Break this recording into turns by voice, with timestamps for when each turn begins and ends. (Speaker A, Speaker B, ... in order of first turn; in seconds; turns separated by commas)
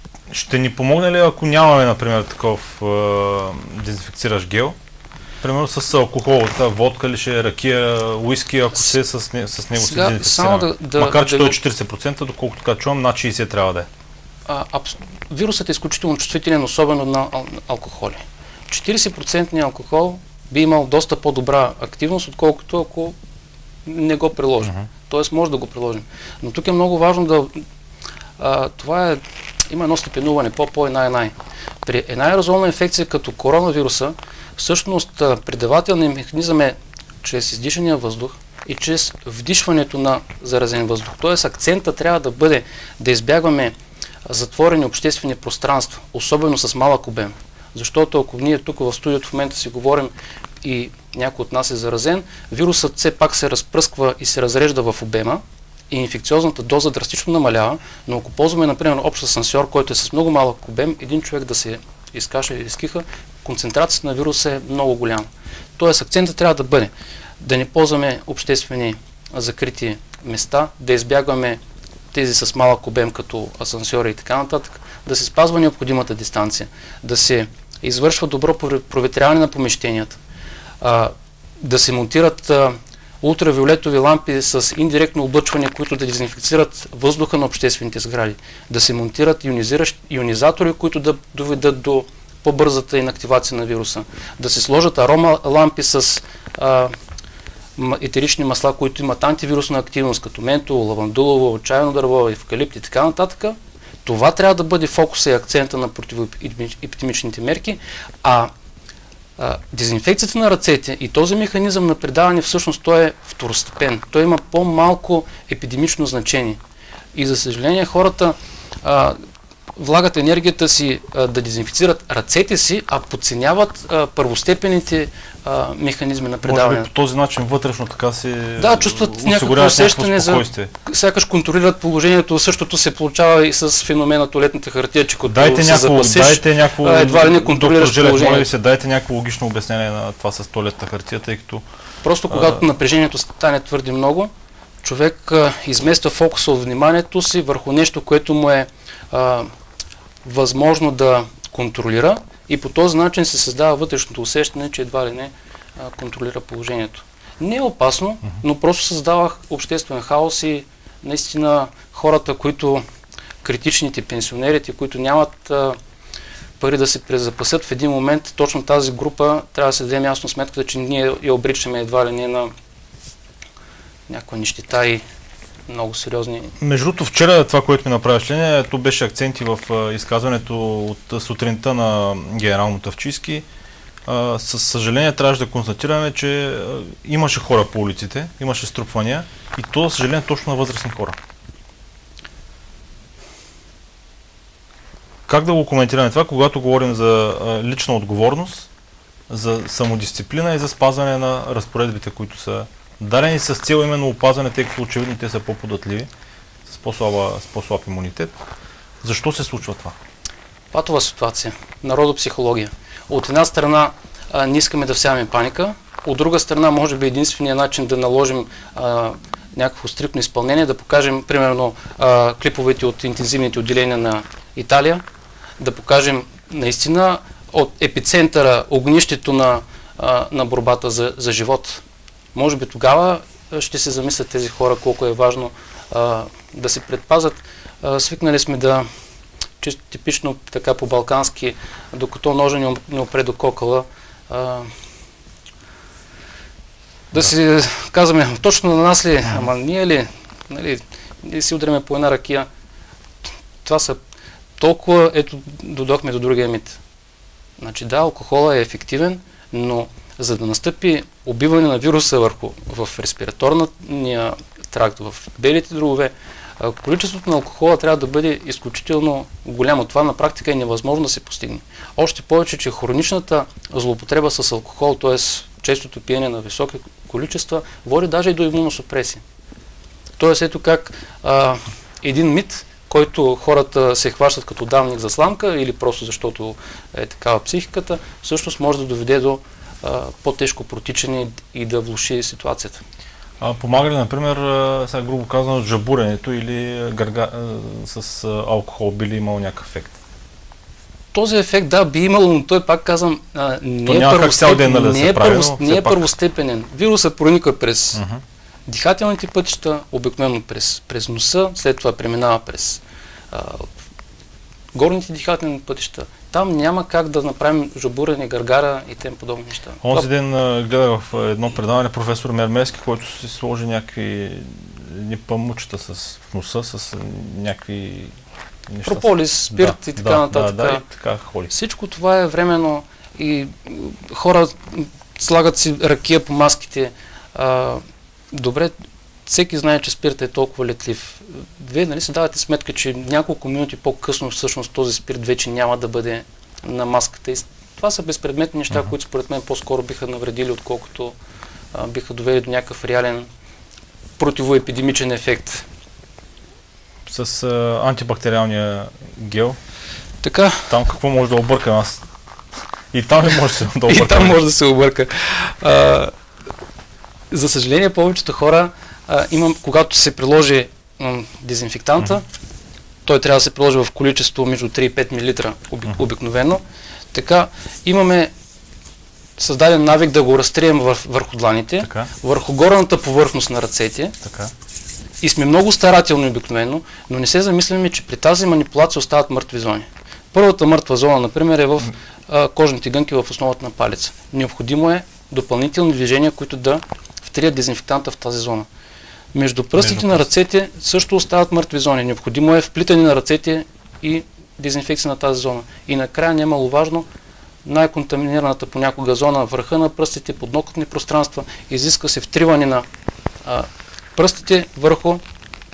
Speaker A: 0.3-4.8, Speaker A: 5.4-13.9, Speaker B: 9.8-11.6, Speaker B: 14.5-23.1, Speaker B: 23.8-27.6, Speaker B: 28.4-31.3, Speaker B: 31.8-43.7, Speaker B: 44.2-50.1, Speaker B: 50.6-71.6, Speaker B: 72.1-80.2, Speaker B: 80.8-96.9, Speaker B: 97.8-108.5, Speaker B: 109.4-116.6, Speaker B: 117.1-119.2, Speaker B: 119.8-126.9, Speaker A: 126.4-130.7, Speaker B: 128.6-138.5, Speaker A: 135.3-141.6, Speaker B: 142.0-144.3, Speaker A: 142.3-142.6, Speaker B: 144.8-149.5, Speaker B: 150.2-162.8, Speaker B: 163.4-165.8, Speaker B: 166.6-172.5, Speaker B: 174.1-175.0, Speaker B: 175.7-176.5, Speaker A: 176.6-183.4, Speaker A: 184.1-191.2, Speaker A: 195.3-198.7, Speaker A: 199.3-206.1, Speaker A: 206.7-208.3, Speaker A: 209.0-209.9, Speaker B: 210.7-225.0, Speaker B: 225.6-231.8, Speaker B: 232.3-238.8, Speaker B: 239.6-244.7, Speaker B: 247.1-252.5, Speaker B: 253.6-254.0, Speaker B: 254.6-256.8, Speaker B: 257.6-279.2, Speaker B: 280.2-292.8, Speaker A: 293.4-299.9, Speaker B: 301.1-308.0, Speaker A: 303.9-306.1, Speaker A: 307.9-308.2, Speaker B: 308.7-313.7, Speaker B: 314.7-320.1, Speaker A: 319.8-328.1, Speaker A: 328.7-331.5, Speaker B: 328.8-330.8, Speaker B: 331.5-338.7, Speaker B: 339.2-351.1, Speaker B: 351.7-353.3, Speaker B: 354.2-355.6, Speaker A: 357.1-359.6, Speaker B: 360.2-360.7, Speaker A: 360.7-362.0, Speaker A: 362.9-364.4, Speaker B: 363.9-366.1, Speaker B: 367.3-372.2, Speaker B: 373.0-376.6, Speaker B: 377.1-378.3, Speaker B: 379.4-384.1, Speaker A: 381.8-382.1, Speaker A: 384.2-384.5, Speaker B: 385.2-398.7, Speaker B: 399.3-407.1, Speaker A: 399.8-400.2, Speaker B: 407.6-412.8, Speaker B: 413.4-415.2